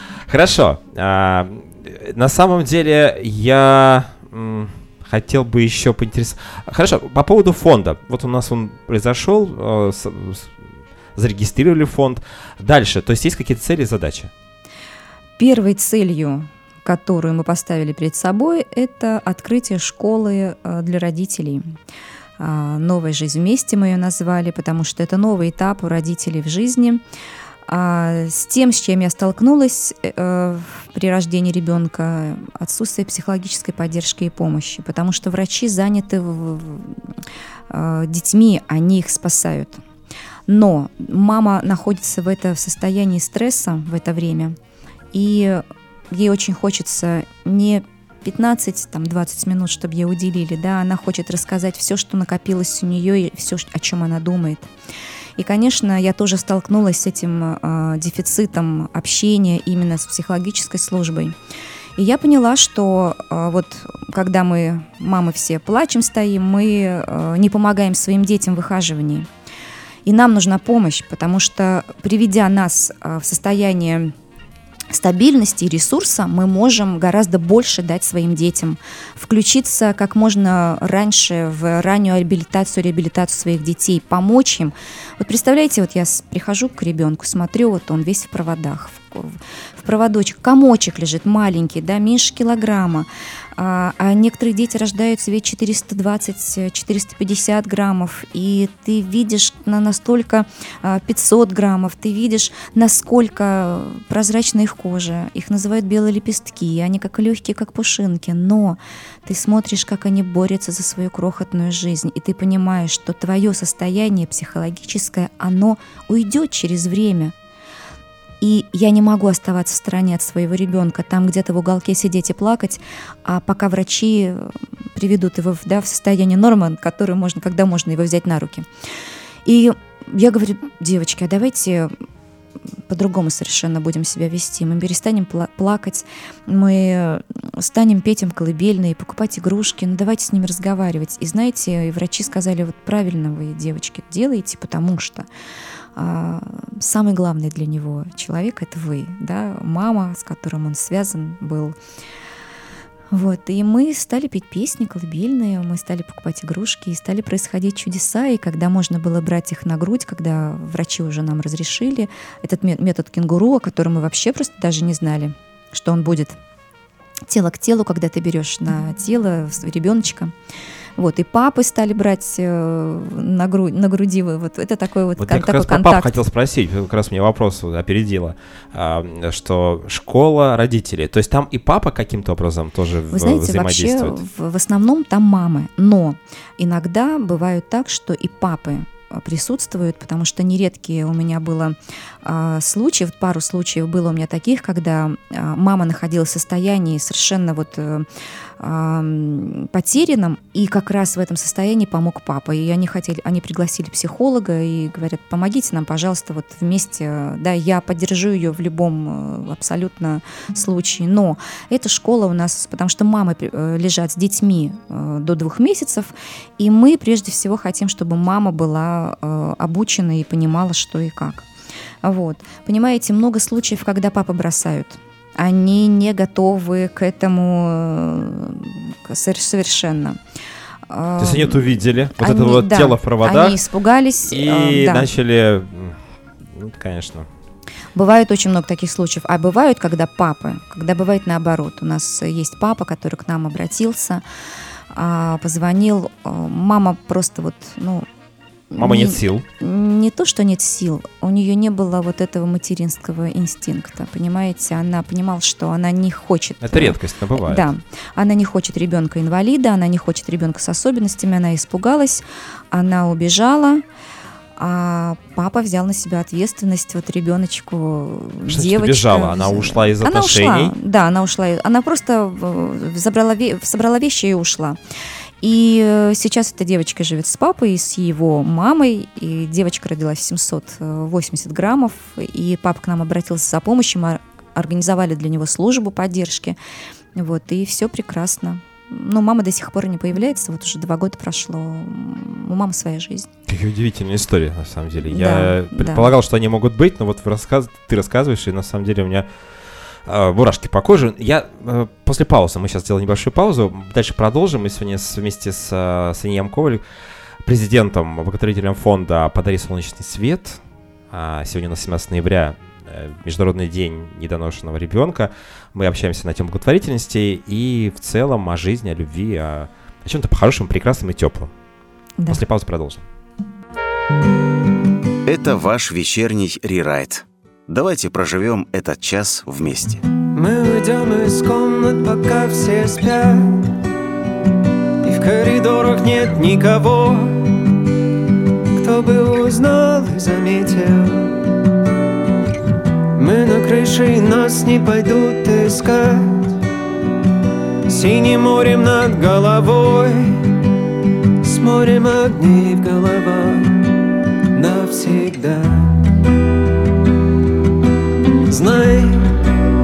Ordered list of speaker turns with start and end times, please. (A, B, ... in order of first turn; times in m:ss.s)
0:00.3-0:10.6 A
0:11.2-0:14.3 A
0:15.4-0:21.7 B
0:22.4-0:27.0 B
0:27.7-0:37.0 B
0:37.7-0:39.8 B
0:40.5-0:44.6 B
0:45.1-0:54.7 B
0:55.4-1:01.3 B
1:02.0-1:09.3 B
1:10.0-1:14.1 B
1:14.9-1:57.3 B
1:58.4-2:08.6 B
2:09.4-2:11.9 B
2:12.9-2:25.2 B
2:26.0-2:31.7 B
2:33.1-2:46.4 B
2:47.3-2:50.3 B
2:51.0-2:56.1 B
2:55.2-3:04.2 A
3:03.1-3:18.0 B
3:18.6-3:41.4 B
3:42.0-3:50.2 B
3:50.9-3:55.1 B
3:51.2-3:53.6 A
3:54.2-3:56.0 A
3:56.5-3:57.3 A
3:57.9-4:04.2 B
4:04.9-4:08.0 B
4:08.7-4:23.8 B
4:08.8-4:09.4 A
4:16.6-4:17.6 A
4:24.6-4:34.8 B
4:28.5-4:30.8 A
4:35.4-4:46.6 B
4:47.2-4:53.3 B
4:53.5-4:59.3 A
4:55.1-4:56.1 B
5:00.0-5:06.8 A
5:07.4-5:21.5 A
5:22.3-5:23.0 A
5:25.2-5:30.0 C
5:30.3-5:33.6 D
5:35.0-5:37.7 D
5:38.7-5:41.5 D
5:43.1-5:46.5 D
5:47.8-5:50.6 D
5:51.4-5:53.8 D
5:54.5-5:56.1 D
5:58.5-5:59.3 D